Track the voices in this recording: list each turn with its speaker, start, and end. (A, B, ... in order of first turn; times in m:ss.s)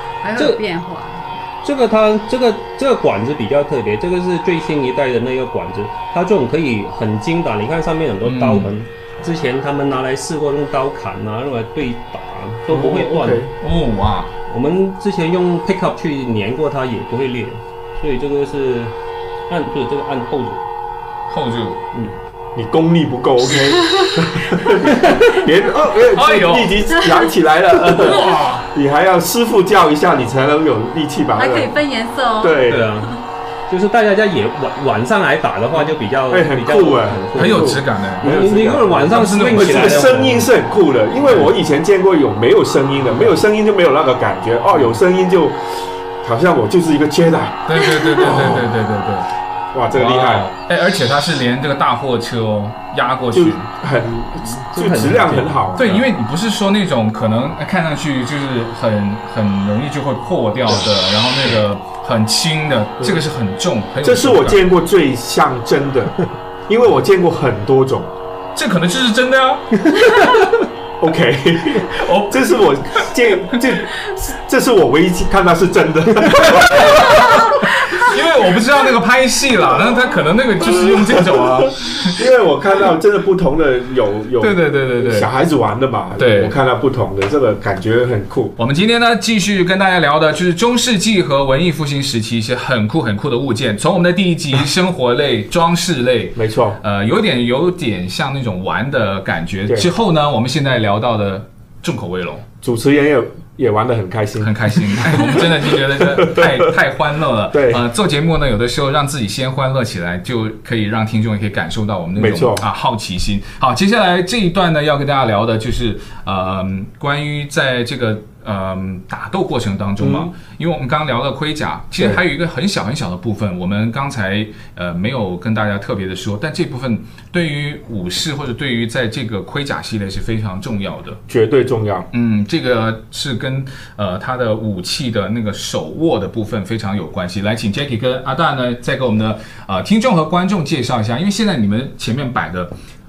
0:00.2-0:01.2 A
0:00.3-0:00.6 B
0:01.6-0:13.5 B
0:08.2-0:08.7 C
0:12.7-0:13.5 D
0:13.6-0:14.3 C
0:14.4-0:18.9 B
0:19.5-0:20.6 B
0:21.3-0:21.8 C
0:22.5-0:31.8 D
0:24.0-0:24.2 A
0:26.1-0:26.9 C
0:27.0-0:27.3 A
0:27.8-0:28.7 C
0:31.4-0:33.2 A
0:32.4-0:33.0 D
0:32.6-0:40.5 B
0:36.3-0:48.7 D
0:37.3-0:38.3 C
0:39.0-0:40.2 C
0:41.2-0:41.5 C
0:47.7-0:49.3 C
0:49.7-0:50.5 D
0:49.9-0:53.7 C
0:53.3-0:56.0 D
0:54.4-0:56.0 B
0:55.8-1:04.7 C
1:04.0-1:08.1 D
1:08.5-1:10.5 C
1:11.0-1:17.4 D
1:11.8-1:13.5 C
1:16.2-1:22.2 C
1:20.8-1:28.5 D
1:24.4-1:25.3 C
1:26.2-1:26.6 C
1:28.6-1:42.4 C
1:36.4-1:36.8 D
1:42.6-1:46.7 D
1:44.4-2:11.2 C
1:47.5-1:47.8 D
1:52.2-1:52.6 D
2:00.0-2:00.3 D
2:11.3-2:12.1 D
2:12.1-2:22.7 C